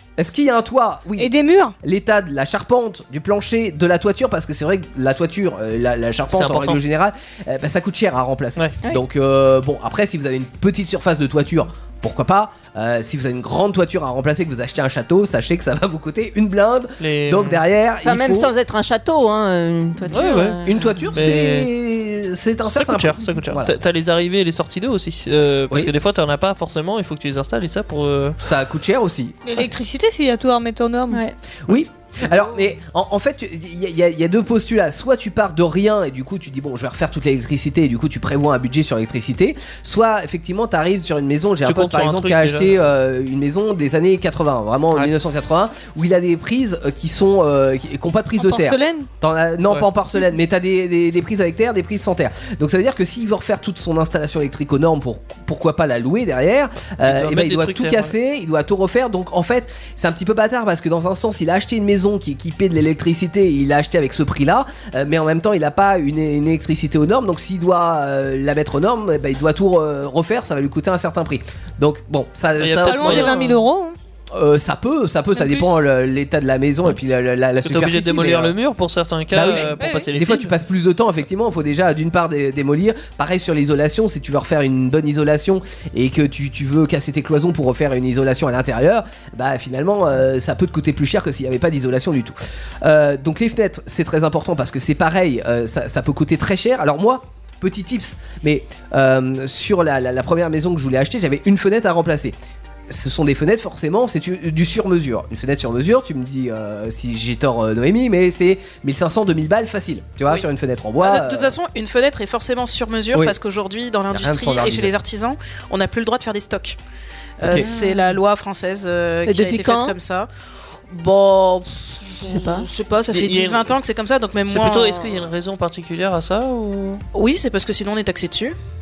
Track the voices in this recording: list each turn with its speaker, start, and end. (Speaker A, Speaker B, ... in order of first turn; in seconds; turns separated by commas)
Speaker A: 0.2-18.5, Speaker B: 1.2-1.8, Speaker C: 6.3-6.8, Speaker C: 17.0-17.6, Speaker D: 18.0-21.1, Speaker C: 20.1-20.6, Speaker A: 20.6-23.8, Speaker C: 21.1-21.7, Speaker C: 22.7-28.4, Speaker A: 28.4-29.4, Speaker B: 29.5-31.2, Speaker A: 31.7-73.3, Speaker C: 41.6-42.8, Speaker B: 48.4-49.1, Speaker C: 57.0-58.1, Speaker C: 72.6-73.5, Speaker B: 72.8-74.0, Speaker A: 74.3-78.5, Speaker B: 75.4-75.7, Speaker C: 77.6-80.5, Speaker A: 79.3-102.3, Speaker B: 79.4-80.1, Speaker A: 102.9-111.5, Speaker E: 111.0-116.8, Speaker A: 114.1-114.9, Speaker E: 117.4-120.3, Speaker D: 117.5-118.1, Speaker D: 119.3-120.0, Speaker E: 120.9-121.6, Speaker E: 122.2-125.3, Speaker D: 122.2-122.7, Speaker C: 123.1-123.8, Speaker C: 124.5-127.0, Speaker E: 127.1-128.6